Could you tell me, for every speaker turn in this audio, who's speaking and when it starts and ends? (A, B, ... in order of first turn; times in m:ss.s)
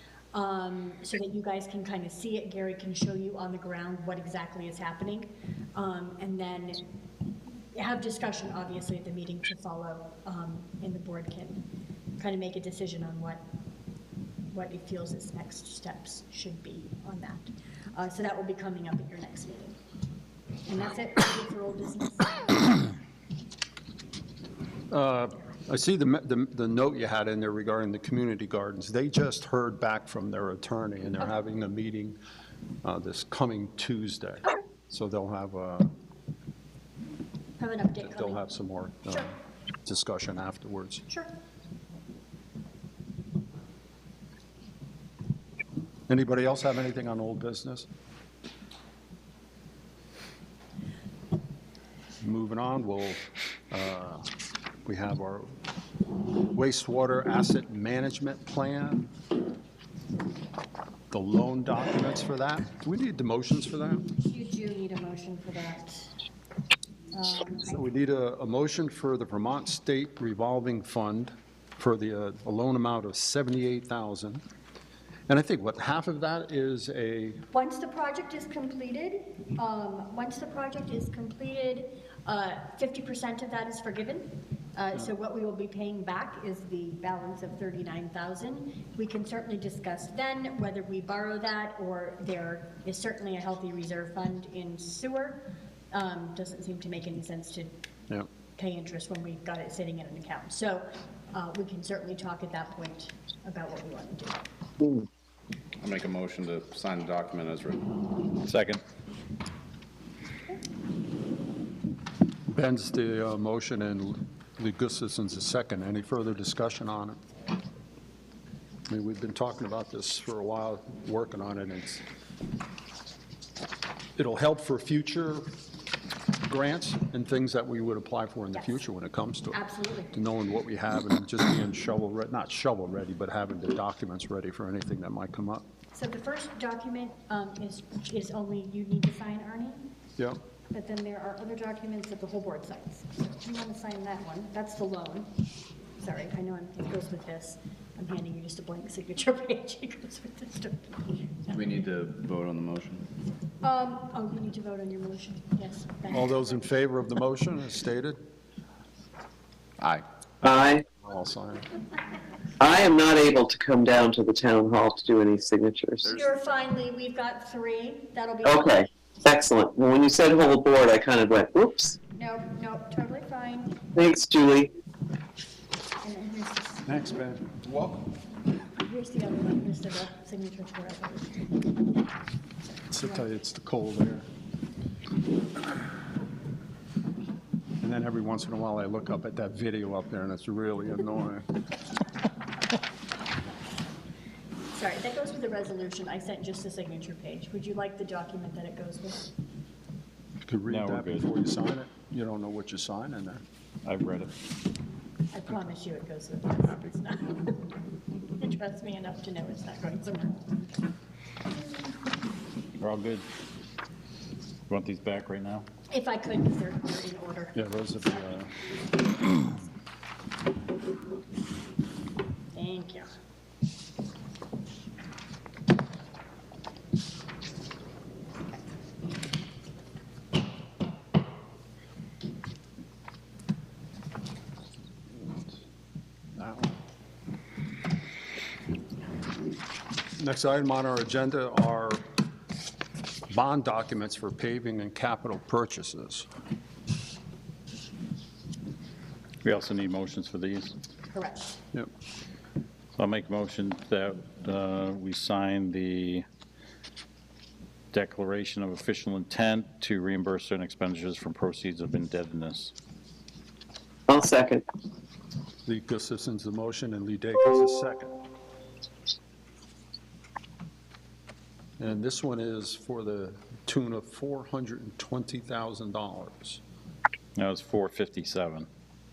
0:00.3-0:06.8 A
0:07.7-0:11.6 A
0:12.2-0:13.4 A
0:14.5-0:19.8 A
0:20.6-0:22.8 A
0:24.9-0:32.2 B
0:32.8-0:35.9 B
0:37.6-0:38.4 A
0:38.0-0:39.3 B
0:39.8-0:41.0 B
0:46.1-0:47.9 B
0:52.2-0:54.2 B
0:54.8-0:55.5 B
0:56.5-0:59.1 B
1:01.1-1:04.1 B
1:04.1-1:06.1 A
1:07.1-1:07.8 A
1:07.6-1:14.4 B
1:15.3-1:17.4 B
1:17.5-1:37.7 A
1:38.6-1:44.4 A
1:45.8-1:47.9 C
1:48.4-1:48.8 D
1:52.5-1:57.2 B
1:58.9-2:02.0 B
2:04.2-2:05.5 B
2:06.4-2:09.6 B
2:08.5-2:08.8 A
2:09.5-2:10.1 A
2:10.1-2:15.6 B
2:15.9-2:19.9 A
2:20.7-2:25.3 A
2:26.0-2:31.5 A
2:31.5-2:33.0 C
2:33.6-2:36.4 A
2:36.1-2:38.2 B
2:39.8-2:40.0 C
2:40.4-2:40.8 E
2:40.9-2:41.7 B
2:42.6-2:46.1 E
2:46.0-2:48.8 A
2:48.4-2:52.0 E
2:52.1-2:53.9 A
2:53.9-2:54.7 E
2:56.0-2:56.9 A
2:56.8-2:57.6 B
2:58.8-3:01.5 A
3:02.9-3:04.2 B
3:07.8-3:11.6 B
3:14.7-3:19.3 A
3:20.4-3:23.4 B
3:20.7-3:21.3 D
3:23.8-3:24.3 D
3:25.3-3:27.6 A
3:28.3-3:30.8 A
3:32.8-3:33.3 D
3:34.7-3:35.7 D
3:35.9-3:37.6 A
3:37.5-3:38.5 B
3:42.5-3:43.1 A
3:56.4-3:56.6 B
4:00.2-4:02.0 B
4:03.3-4:06.3 B
4:09.4-4:10.7 D
4:11.1-4:11.6 A
4:13.0-4:16.2 D
4:17.9-4:22.7 D
4:24.1-4:24.6 E
4:25.6-4:28.2 B
4:31.8-4:36.6 B
4:37.4-4:38.7 D